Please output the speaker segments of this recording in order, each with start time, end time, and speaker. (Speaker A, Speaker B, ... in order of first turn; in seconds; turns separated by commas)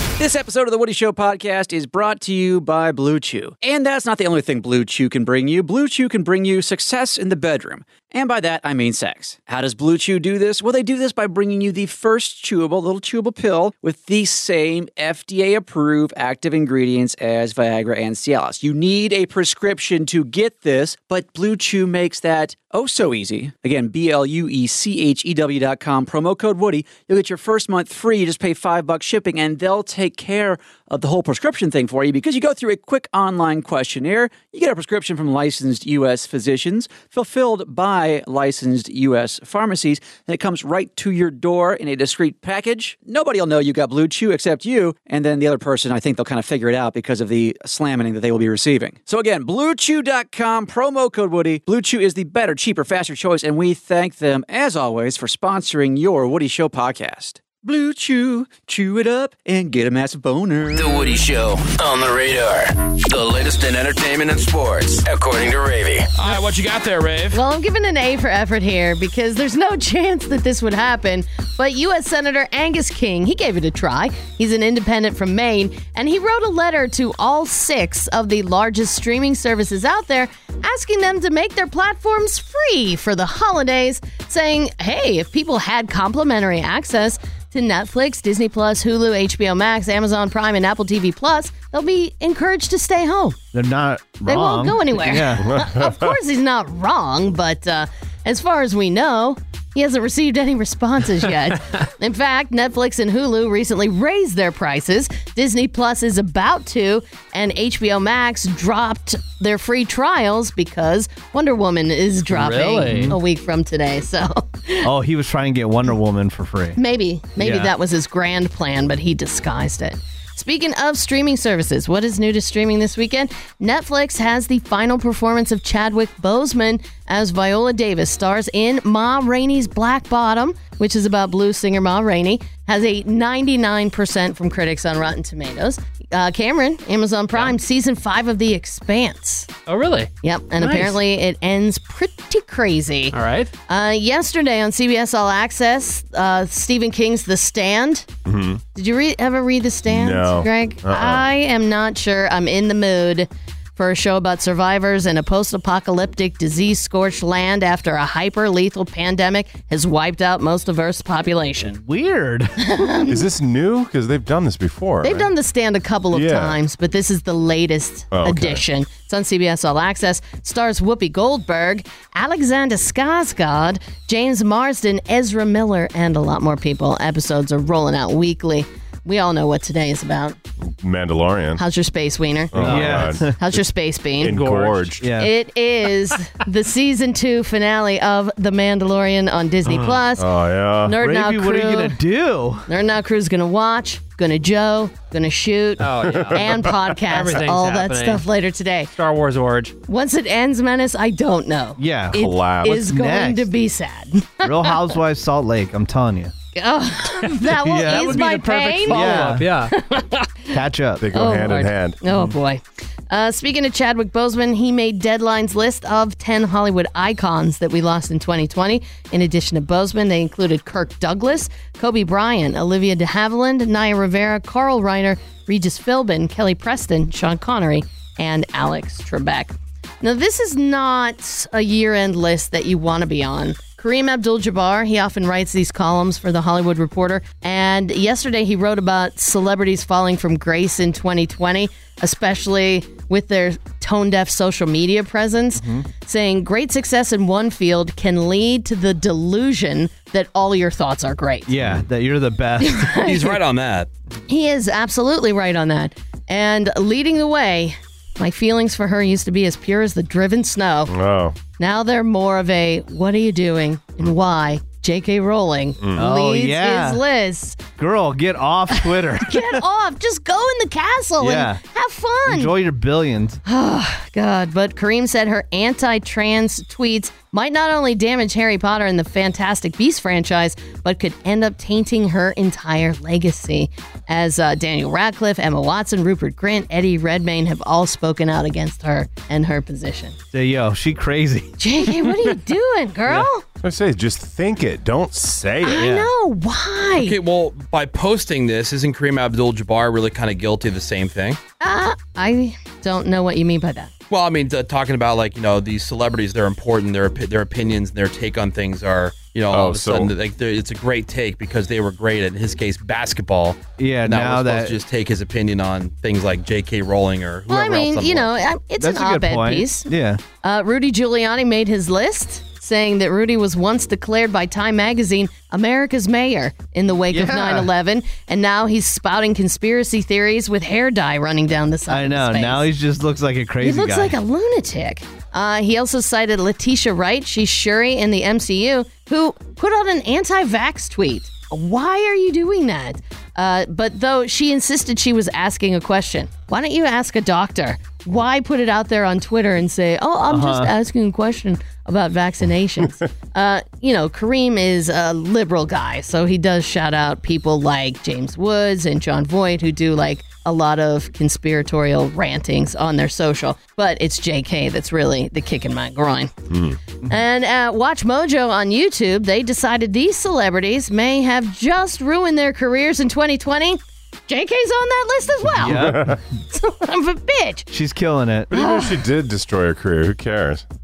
Speaker A: 0.2-61.2, Speaker B: 60.7-66.1, Speaker C: 66.2-67.4, Speaker D: 67.3-93.4, Speaker E: 93.5-95.6, Speaker D: 94.2-114.9, Speaker F: 95.4-96.2, Speaker G: 112.3-113.2, Speaker E: 112.9-113.2, Speaker E: 114.8-116.8, Speaker D: 116.8-139.5, Speaker E: 117.4-117.7, Speaker G: 139.7-140.1, Speaker D: 140.2-148.1, Speaker G: 143.1-143.5, Speaker F: 148.2-148.6, Speaker D: 148.7-161.8, Speaker F: 149.9-151.3, Speaker E: 161.6-162.5, Speaker D: 162.6-163.2, Speaker F: 163.1-165.3, Speaker D: 165.0-180.4, Speaker F: 166.1-166.6, Speaker F: 168.1-168.6, Speaker F: 180.8-181.6, Speaker D: 181.6-184.5, Speaker F: 182.5-185.2, Speaker E: 182.6-183.4, Speaker E: 185.0-185.3, Speaker D: 185.1-190.2, Speaker F: 190.2-191.0, Speaker D: 190.8-192.0, Speaker E: 191.0-192.7, Speaker D: 192.7-198.9, Speaker G: 195.8-198.2, Speaker F: 195.9-196.9, Speaker G: 198.9-199.8, Speaker D: 199.9-204.8, Speaker E: 201.8-203.5, Speaker F: 202.1-202.9, Speaker E: 204.4-206.3, Speaker D: 206.5-210.6, Speaker E: 207.6-209.5, Speaker G: 207.8-209.7, Speaker E: 210.5-211.1, Speaker F: 211.0-212.0, Speaker D: 211.1-251.5, Speaker E: 212.1-212.3, Speaker E: 245.6-245.8, Speaker E: 251.5-253.0, Speaker F: 251.6-251.8, Speaker D: 252.6-253.3, Speaker C: 253.0-253.9, Speaker D: 254.3-260.9, Speaker F: 260.9-261.4, Speaker D: 261.5-267.6, Speaker F: 265.8-266.1, Speaker E: 266.0-267.0, Speaker E: 267.8-269.6, Speaker D: 269.2-272.5, Speaker E: 271.2-271.6, Speaker E: 272.2-273.4, Speaker D: 273.4-290.2, Speaker E: 290.3-292.0, Speaker D: 291.6-293.4, Speaker F: 293.6-296.0, Speaker D: 295.6-297.2, Speaker E: 295.8-296.1, Speaker C: 297.0-301.4, Speaker D: 301.6-303.9, Speaker C: 304.1-318.4, Speaker F: 309.5-310.1, Speaker E: 313.8-314.8, Speaker D: 317.5-319.9, Speaker E: 318.8-320.2, Speaker D: 320.4-332.7, Speaker E: 327.1-327.7, Speaker E: 331.9-334.2, Speaker D: 333.6-366.3, Speaker E: 350.3-350.7, Speaker F: 366.5-366.8, Speaker D: 367.1-375.9, Speaker E: 375.5-376.2, Speaker F: 375.6-376.2, Speaker D: 376.5-377.7, Speaker E: 377.7-378.5, Speaker F: 378.5-380.6, Speaker D: 378.5-379.0